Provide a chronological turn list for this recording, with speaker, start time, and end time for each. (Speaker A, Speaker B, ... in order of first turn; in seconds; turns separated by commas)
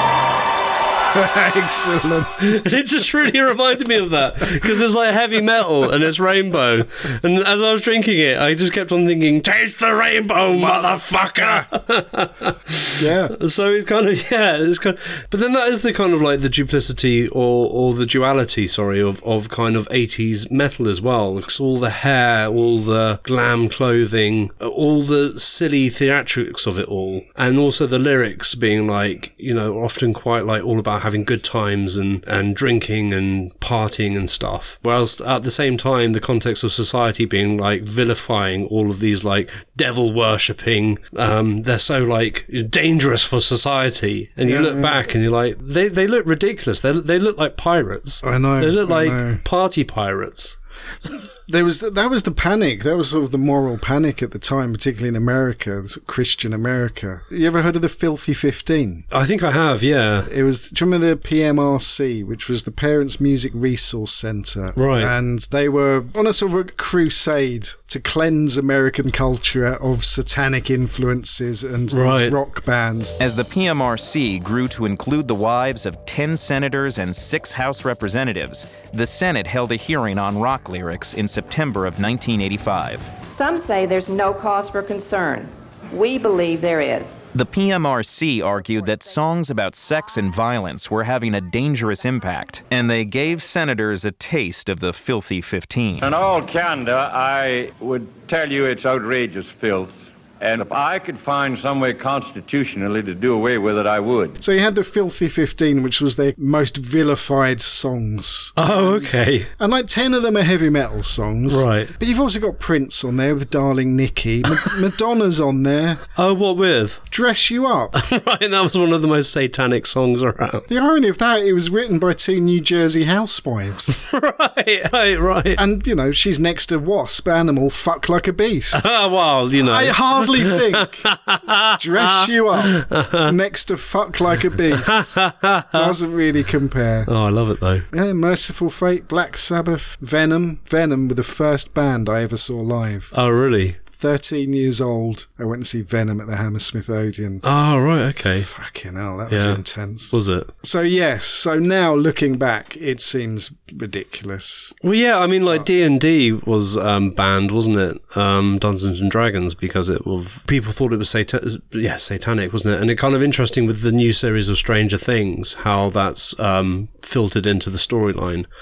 Speaker A: 1.1-2.4, Speaker B: 2.4-50.6, Speaker A: 10.5-10.8, Speaker A: 11.4-11.7, Speaker A: 13.0-13.3, Speaker A: 44.4-45.0, Speaker A: 48.2-49.4, Speaker A: 51.5-59.0, Speaker B: 59.1-60.3, Speaker A: 60.3-73.2, Speaker B: 64.8-65.1, Speaker B: 71.9-72.3, Speaker C: 73.2-83.1, Speaker D: 83.3-87.2, Speaker C: 87.3-96.1, Speaker E: 96.0-104.4, Speaker A: 104.4-116.0, Speaker B: 108.6-109.5, Speaker B: 111.5-111.9, Speaker B: 116.2-117.1, Speaker A: 117.1-118.0, Speaker B: 117.9-120.7, Speaker A: 120.7-124.0, Speaker B: 123.9-125.6, Speaker A: 125.6-128.8, Speaker B: 128.7-133.3, Speaker A: 129.6-131.1, Speaker A: 131.8-135.2, Speaker B: 134.7-135.9, Speaker A: 135.7-137.1, Speaker B: 137.1-137.9, Speaker A: 137.9-143.1, Speaker B: 143.1-143.8, Speaker A: 143.9-147.4, Speaker B: 147.4-148.5, Speaker A: 148.5-154.8, Speaker B: 149.3-150.5, Speaker B: 154.8-168.5